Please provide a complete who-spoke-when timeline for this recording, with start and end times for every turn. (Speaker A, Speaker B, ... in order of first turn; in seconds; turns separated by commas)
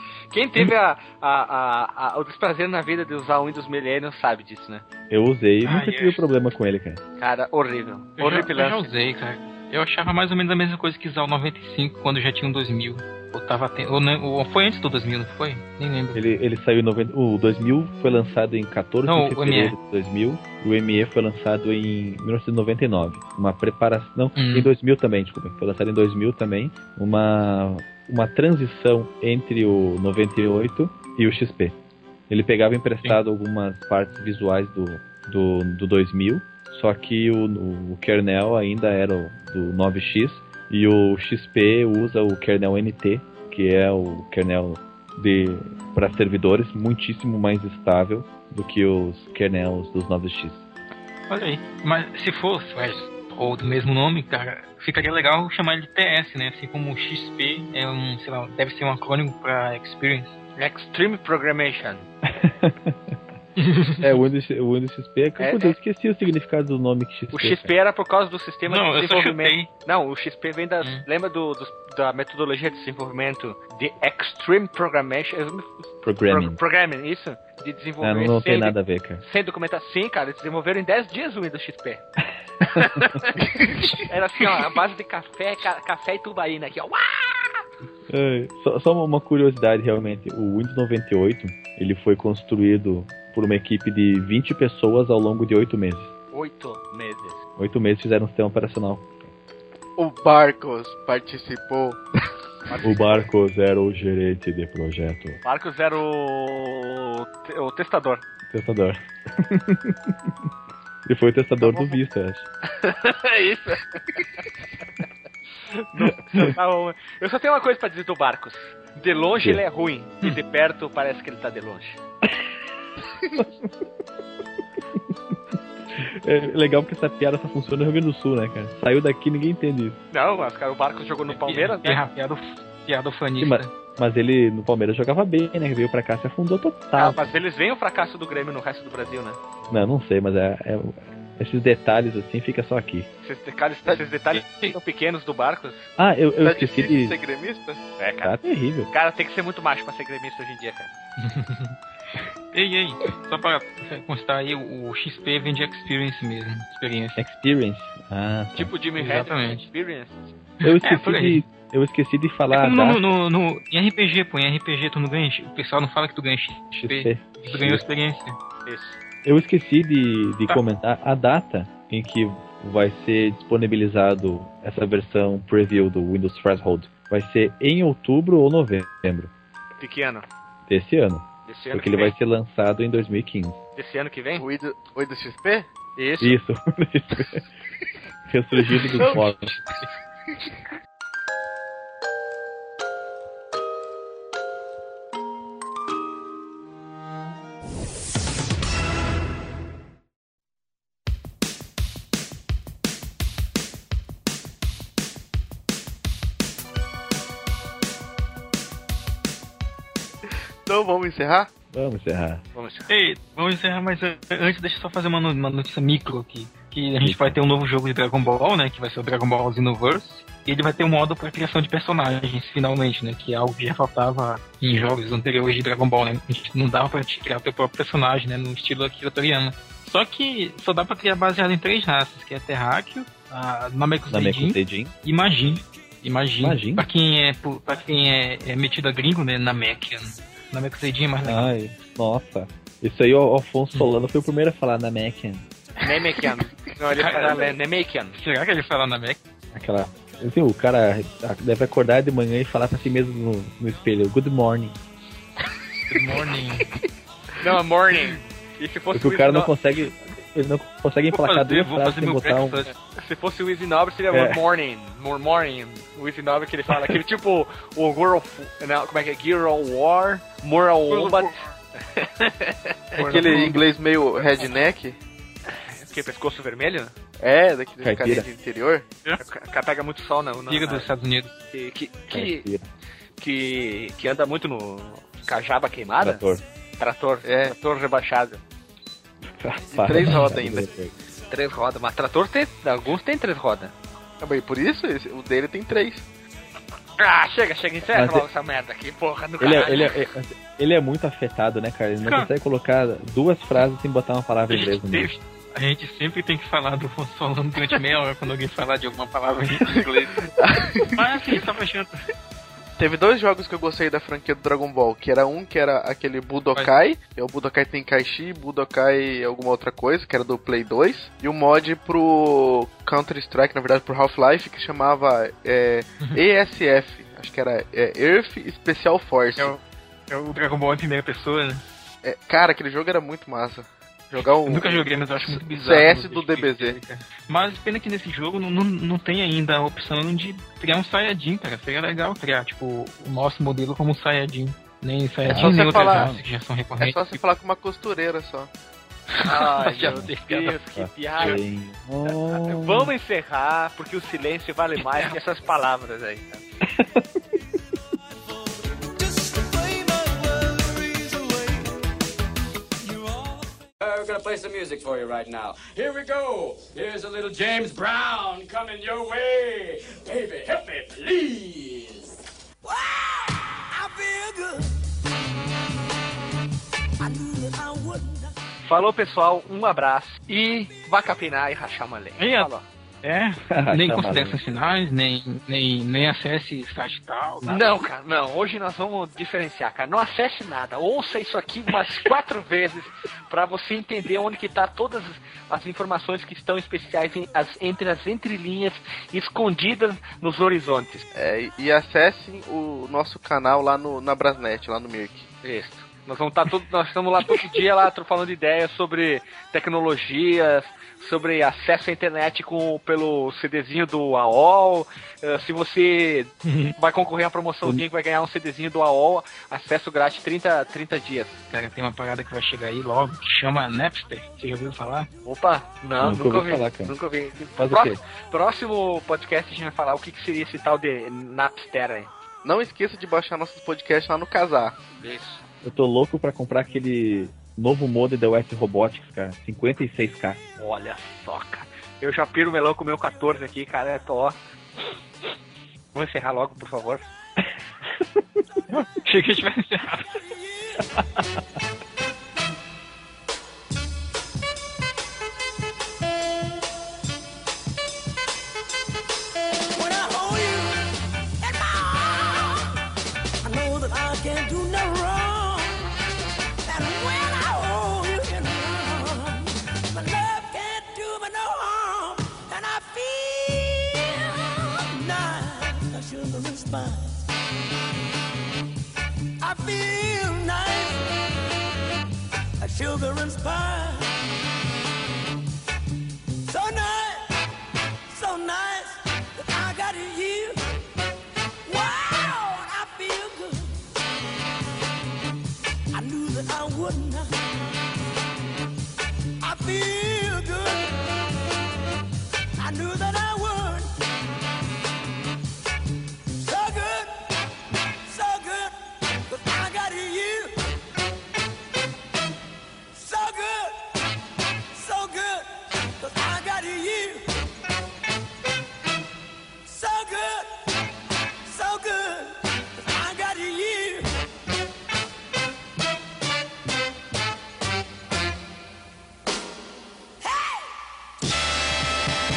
Speaker A: 0.3-4.8, Speaker B: 5.1-7.0, Speaker C: 5.7-6.2, Speaker A: 7.2-8.9, Speaker C: 8.2-16.2, Speaker B: 16.1-31.8, Speaker C: 19.1-19.8, Speaker C: 24.4-24.7, Speaker B: 32.3-50.7, Speaker C: 51.3-60.4, Speaker A: 52.8-53.0, Speaker A: 60.6-62.1, Speaker B: 62.3-63.1, Speaker C: 63.6-64.1, Speaker B: 64.0-67.7, Speaker A: 65.4-65.8, Speaker A: 67.3-82.0, Speaker C: 68.7-69.7, Speaker B: 76.0-76.6, Speaker B: 78.0-79.2, Speaker B: 82.7-83.1, Speaker A: 82.7-83.4, Speaker D: 83.4-83.9, Speaker A: 84.0-87.6, Speaker B: 88.1-96.1, Speaker A: 96.3-97.4, Speaker B: 97.6-99.1, Speaker D: 100.0-102.0, Speaker A: 102.7-103.3, Speaker B: 102.8-105.4, Speaker A: 105.4-108.2, Speaker B: 108.5-110.3, Speaker B: 111.0-112.5, Speaker A: 111.6-112.0, Speaker A: 112.7-114.4, Speaker A: 115.7-122.0, Speaker B: 123.3-123.7, Speaker B: 126.0-130.0, Speaker A: 130.1-132.0, Speaker C: 131.3-133.7, Speaker B: 133.4-137.3, Speaker A: 136.9-139.4, Speaker B: 139.7-143.1, Speaker A: 143.2-145.9, Speaker B: 146.0-147.2, Speaker D: 146.4-147.8, Speaker A: 148.0-148.4, Speaker B: 148.2-148.9, Speaker A: 148.9-150.9, Speaker C: 151.2-151.8, Speaker C: 152.5-157.2, Speaker B: 157.2-158.7, Speaker A: 158.5-160.3, Speaker C: 159.0-159.7, Speaker C: 160.6-161.4, Speaker B: 160.6-163.1, Speaker C: 162.5-168.4, Speaker B: 166.7-167.8, Speaker A: 168.7-169.0, Speaker B: 169.2-179.3, Speaker A: 179.8-180.3, Speaker B: 180.7-183.6, Speaker A: 181.5-182.2, Speaker A: 183.8-184.5, Speaker D: 184.4-185.7, Speaker A: 186.0-186.4, Speaker B: 186.2-187.4, Speaker B: 188.3-189.6, Speaker D: 188.7-189.2, Speaker D: 210.7-211.5, Speaker B: 211.7-212.4, Speaker A: 212.6-212.9, Speaker C: 212.9-241.5, Speaker B: 217.0-217.4, Speaker B: 234.1-234.9, Speaker B: 236.4-236.9, Speaker B: 241.2-245.4, Speaker A: 245.8-248.2, Speaker C: 246.9-247.5, Speaker C: 248.2-249.2, Speaker B: 249.5-254.8, Speaker C: 255.9-256.7, Speaker A: 257.4-259.5, Speaker B: 258.9-262.6, Speaker C: 261.1-262.7, Speaker A: 262.8-273.0, Speaker B: 264.1-264.4, Speaker C: 270.9-271.4, Speaker C: 272.9-273.7, Speaker D: 273.0-275.0, Speaker A: 275.5-276.9, Speaker D: 277.2-278.9, Speaker B: 277.8-278.3, Speaker A: 279.2-280.9, Speaker C: 280.5-281.3, Speaker A: 281.5-282.5, Speaker B: 282.1-282.7, Speaker A: 283.2-286.2, Speaker B: 286.0-286.4, Speaker A: 286.8-288.4, Speaker D: 287.2-287.6, Speaker B: 289.4-290.9, Speaker D: 289.8-290.7, Speaker A: 291.3-293.7, Speaker D: 294.2-296.1, Speaker A: 297.0-300.0, Speaker B: 297.9-298.3, Speaker B: 299.4-305.1, Speaker C: 302.0-302.3, Speaker C: 304.5-310.3, Speaker D: 309.7-311.4, Speaker C: 310.9-311.9, Speaker D: 312.8-329.6, Speaker C: 329.4-331.6, Speaker D: 332.0-336.8, Speaker C: 334.2-347.2, Speaker B: 345.3-346.2, Speaker D: 345.3-346.1, Speaker D: 346.8-348.5, Speaker C: 349.1-350.6, Speaker A: 349.2-351.4, Speaker B: 349.8-350.1, Speaker B: 350.8-352.9, Speaker A: 352.3-356.4, Speaker B: 356.7-357.1, Speaker E: 359.0-361.6, Speaker E: 362.8-363.4, Speaker F: 363.8-372.2, Speaker E: 372.6-374.8, Speaker E: 377.0-378.3, Speaker A: 378.6-382.7, Speaker C: 382.2-382.5, Speaker C: 383.0-387.7, Speaker B: 383.5-384.4, Speaker A: 387.5-401.1, Speaker D: 401.1-405.3, Speaker A: 405.4-421.4, Speaker C: 416.5-416.7, Speaker C: 421.5-425.1, Speaker A: 425.2-432.1, Speaker B: 426.0-426.9, Speaker B: 427.6-428.0, Speaker D: 432.4-434.8, Speaker A: 435.0-435.4, Speaker B: 435.6-440.4, Speaker A: 440.6-444.4, Speaker A: 445.9-447.1, Speaker C: 448.7-450.2, Speaker E: 459.7-462.8, Speaker E: 463.4-465.9, Speaker E: 466.6-477.2, Speaker E: 479.4-481.1, Speaker E: 482.6-484.1, Speaker E: 486.5-487.3, Speaker E: 488.1-490.6, Speaker E: 491.6-493.8, Speaker E: 495.9-497.3, Speaker E: 499.4-501.2, Speaker E: 502.6-503.9, Speaker E: 506.4-507.2, Speaker E: 508.0-510.6, Speaker E: 512.9-513.8, Speaker E: 514.7-517.3, Speaker E: 519.7-520.5, Speaker E: 521.5-524.1, Speaker E: 530.2-530.8